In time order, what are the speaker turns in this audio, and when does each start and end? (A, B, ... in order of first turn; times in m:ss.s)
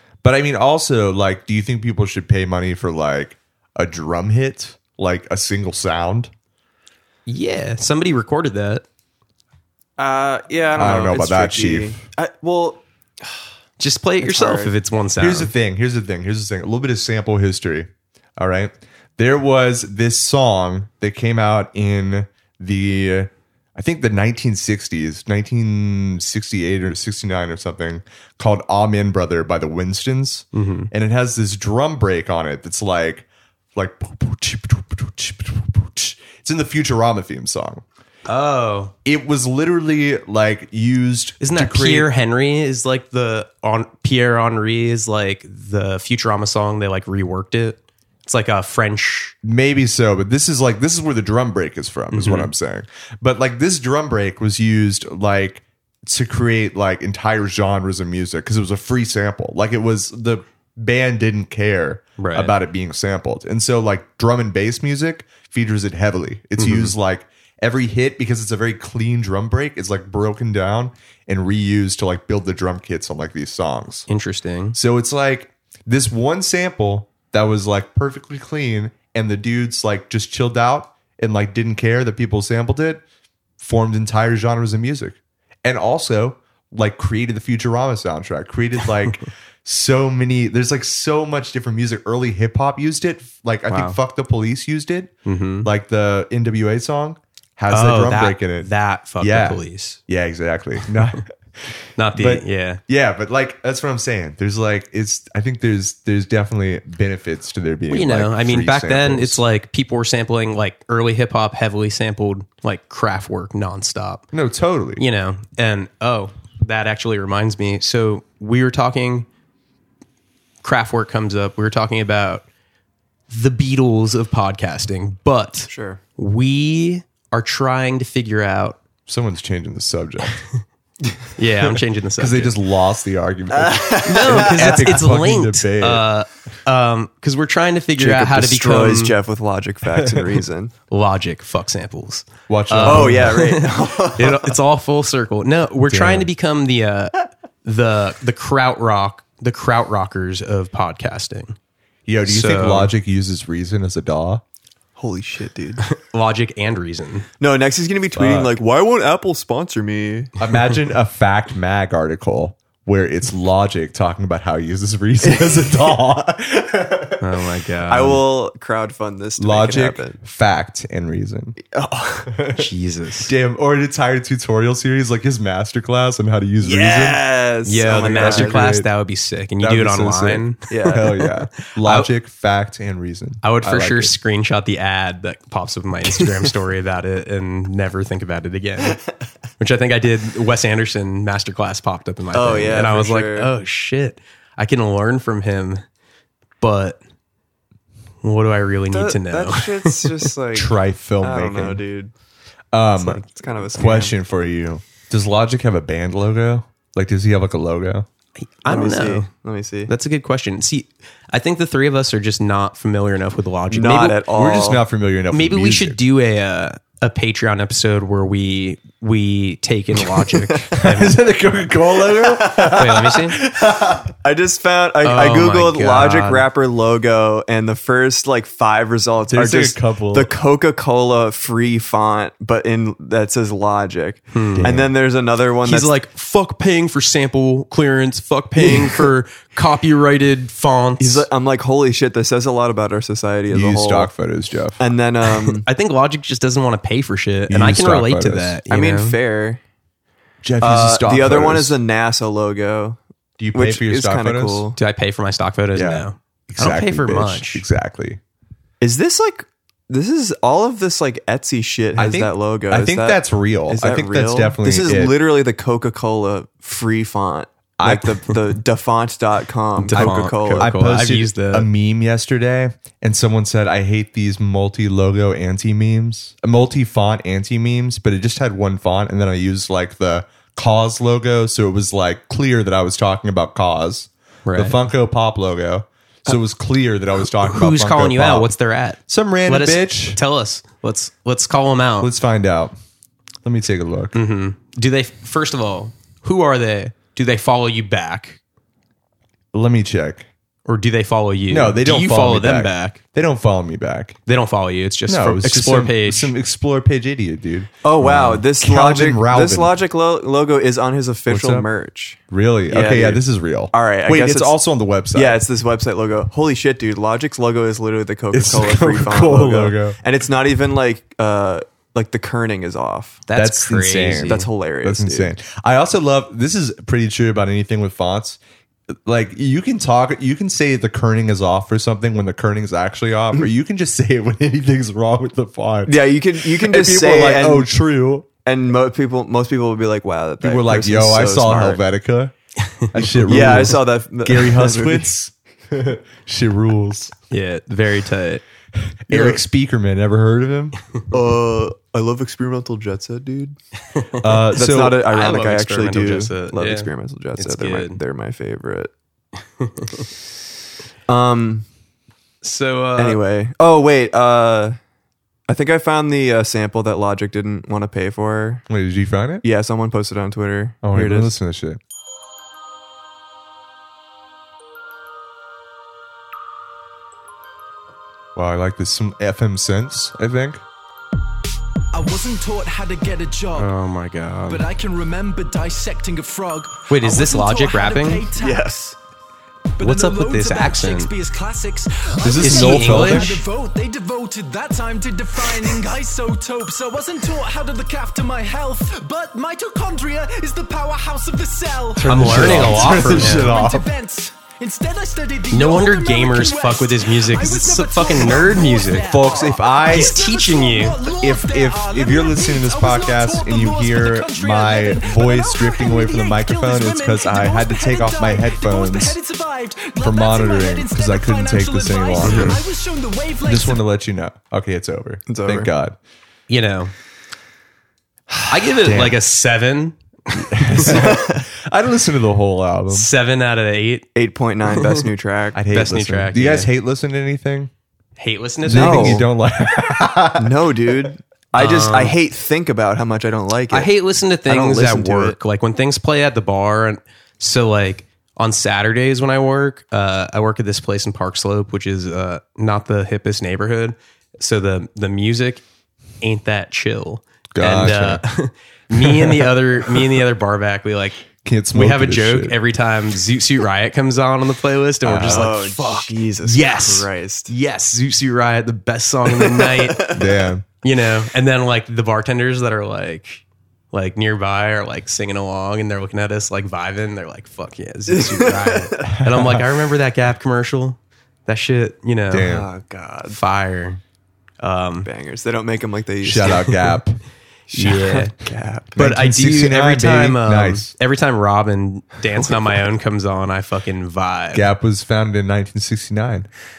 0:00.2-0:06.3 A
0:07.3-0:08.8 B
0:10.0-0:13.4 C
0:10.7-0:12.0 A
0:13.8-0:15.5 B
0:14.2-0:14.7 C
0:15.2-0:37.8 A
0:30.5-0:30.9 B
0:38.2-0:38.9 B
0:39.0-0:42.1 A
0:41.4-0:49.3 B
0:49.4-1:14.1 A
0:52.1-0:52.5 B
1:02.2-1:02.5 B
1:06.6-1:06.9 B
1:14.1-1:14.8 B
1:14.7-1:23.0 A
1:23.6-1:35.1 A
1:33.7-1:34.0 B
1:35.2-1:35.7 B
1:35.6-1:49.4 A
1:37.7-1:40.0 B
1:42.0-1:42.8 B
1:47.9-1:54.2 B
1:54.3-1:55.0 A
1:55.0-1:59.3 B
2:00.6-2:02.4 B
2:03.3-2:08.8 B
2:05.7-2:06.0 C
2:09.1-2:10.4 A
2:11.4-2:12.6 B
2:12.2-2:16.0 A
2:13.5-2:15.0 C
2:14.0-2:19.2 B
2:18.0-2:20.7 C
2:20.0-2:20.3 A
2:20.9-2:31.6 B
2:22.5-2:23.5 A
2:22.8-2:24.5 C
2:25.9-2:26.3 A
2:32.0-2:34.4 A
2:32.2-2:32.9 B
2:35.0-2:35.8 C
2:35.9-2:37.3 B
2:37.4-2:40.3 C
2:38.1-2:38.6 A
2:40.4-2:47.2 A
2:47.2-2:48.2 B
2:47.9-2:50.2 C
2:49.4-2:51.6 A
2:51.6-2:52.3 C
2:52.3-2:52.7 A
2:52.5-2:53.3 B
2:53.2-2:57.2 A
2:56.6-2:58.7 C
2:57.6-3:02.1 B
2:58.0-2:58.9 A
2:59.6-3:04.1 A
3:00.7-3:01.1 C
3:03.4-3:09.0 B
3:09.6-3:15.8 B
3:12.3-3:13.5 C
3:16.6-3:17.0 B
3:18.2-3:20.3 B
3:18.9-3:22.1 C
3:20.5-3:21.8 A
3:22.7-3:28.1 A
3:23.0-3:24.1 C
3:28.4-3:29.3 B
3:28.6-3:29.9 C
3:29.9-3:34.2 B
3:33.7-3:34.8 C
3:34.3-3:36.0 A
3:35.3-3:41.2 B
3:40.3-3:40.7 C
3:40.8-3:44.1 A
3:42.1-3:42.8 C
3:42.7-3:43.4 B
3:44.2-3:55.9 C
3:45.0-3:46.5 B
3:49.3-3:50.3 A
3:54.3-3:54.8 B
3:54.5-3:54.9 A
3:55.6-4:01.3 B
3:58.6-3:59.1 C
4:01.0-4:04.1 C
4:03.5-4:04.8 A
4:04.8-4:05.6 C
4:05.3-4:09.2 B
4:07.5-4:08.6 A
4:08.7-4:09.6 C
4:10.4-4:11.8 A
4:10.6-4:13.0 C
4:13.4-4:14.7 A
4:13.5-4:14.8 C
4:14.8-4:17.6 B
4:15.7-4:18.2 A
4:18.8-4:30.7 C
4:22.0-4:25.2 A
4:27.8-4:28.3 A
4:29.8-4:31.7 B
4:29.9-4:48.5 A
4:44.4-4:44.8 B
4:47.4-4:52.1 B
4:49.1-4:50.2 A
4:52.0-4:52.7 A
4:53.4-4:54.1 A
4:54.1-4:58.4 B
4:59.5-5:00.3 A
5:00.6-5:03.0 B
5:01.5-5:04.2 A
5:04.2-5:06.3 B
5:05.1-5:09.8 A
5:07.8-5:14.5 C
5:11.3-5:11.7 A
5:12.3-5:15.4 A
5:15.1-5:23.2 C
5:18.3-5:20.0 A
5:23.3-5:24.5 B
5:23.4-5:28.4 A
5:24.1-5:25.3 C
5:28.9-5:38.3 A
5:35.8-5:37.7 C
5:38.4-5:41.8 C
5:40.4-5:42.3 A
5:42.9-5:47.1 A
5:43.2-5:45.1 C
5:47.3-5:48.4 B
5:48.9-5:50.8 A
5:49.1-5:49.4 C
5:51.1-5:53.6 C
5:53.9-5:54.2 B
5:54.2-5:55.0 A
5:54.5-5:58.9 C
5:54.9-5:58.0 B
5:59.6-6:00.0 B
6:01.1-6:01.6 C
6:02.4-6:03.2 B
6:03.0-6:04.8 C
6:05.5-6:08.6 C
6:08.7-6:09.4 A
6:09.4-6:11.3 C
6:10.8-6:11.8 A
6:18.3-6:20.6 A
6:21.9-6:23.7 D
6:23.5-6:24.7 B
6:24.5-6:29.0 D
6:26.9-6:28.3 B
6:28.4-6:28.8 C
6:29.8-7:03.8 D
6:29.8-6:31.1 B
6:32.2-6:33.4 A
6:32.4-6:33.3 B
6:42.0-6:43.9 A
6:42.0-6:43.6 B
6:45.5-6:49.1 B
6:49.0-6:50.2 A
6:49.9-6:51.0 B
6:51.2-6:59.2 A
7:00.0-7:02.6 A
7:02.2-7:02.6 B
7:03.4-7:06.0 A
7:05.3-7:05.7 C
7:06.5-7:06.9 B
7:08.5-7:11.0 B
7:08.8-7:09.2 A
7:10.5-7:13.1 A
7:10.8-7:11.4 C
7:12.9-7:14.1 B
7:14.1-7:15.6 C
7:15.5-7:17.7 A
7:15.7-7:16.7 B
7:18.2-7:19.2 B
7:18.6-7:20.6 A
7:18.7-7:19.3 C
7:20.4-7:23.9 C
7:21.5-7:22.2 B
7:23.7-7:35.6 B
7:24.4-7:25.4 C
7:36.2-7:41.2 B
7:37.5-7:38.2 A
7:38.9-7:39.5 A
7:41.4-7:42.6 A
7:41.7-7:50.2 B
7:45.0-7:45.5 A
7:45.2-7:47.5 C
7:49.2-7:50.3 C
7:50.1-7:50.6 A
7:50.8-8:02.5 B
7:58.1-7:59.1 C
7:59.1-7:59.6 A
8:02.3-8:02.7 A
8:02.4-8:03.4 C
8:03.2-8:04.0 B
8:04.6-8:05.1 B
8:05.0-8:06.8 C
8:06.2-8:07.2 A
8:07.7-8:08.3 B
8:07.7-8:09.0 C
8:09.0-8:10.9 A
8:09.0-8:14.7 B
8:14.5-8:16.5 A